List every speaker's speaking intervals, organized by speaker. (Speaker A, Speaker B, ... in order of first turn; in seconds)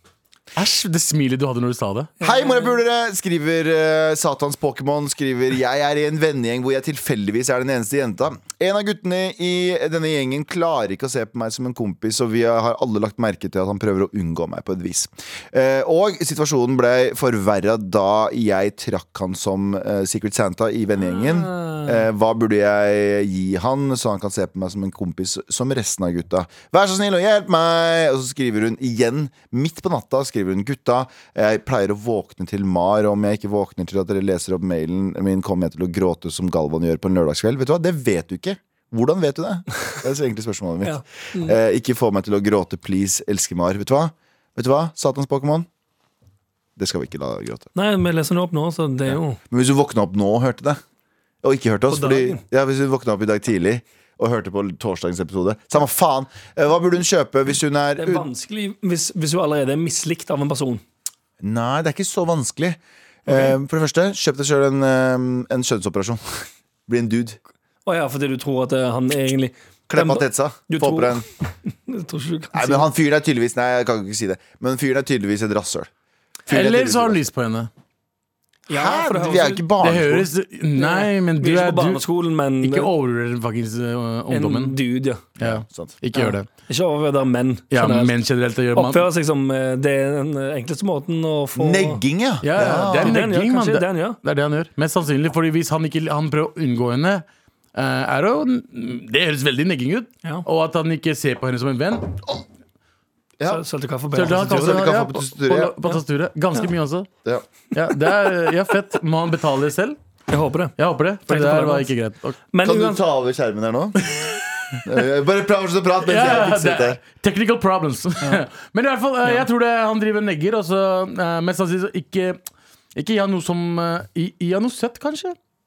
Speaker A: 0.6-2.1, 76.5-77.7, 79.8-82.0, 82.6-84.8, 85.4-86.5, 87.7-89.1, 92.4-97.2, 97.8-102.2, 104.1-107.1, 107.7-110.0, 110.8-112.4, 114.0-114.8, 116.0-122.4, 123.0-125.4
Speaker B: 2.2-2.8, 21.0-22.0, 40.8-41.6, 47.8-49.4, 51.9-52.4, 58.0-60.8, 63.3-63.5, 67.9-72.9, 78.7-79.7, 80.8-82.9, 84.3-85.2, 86.2-88.2, 88.8-92.0, 92.5-94.2, 103.5-104.8, 110.3-110.8, 111.3-111.9, 112.5-113.0
Speaker C: 2.2-45.7, 46.8-47.7, 49.1-50.8, 51.4-58.3, 61.4-67.4, 69.9-71.2, 72.5-75.9, 76.5-77.2, 78.7-80.3, 85.4-86.0, 91.6-93.2, 104.2-105.7, 112.6-114.0, 114.8-117.0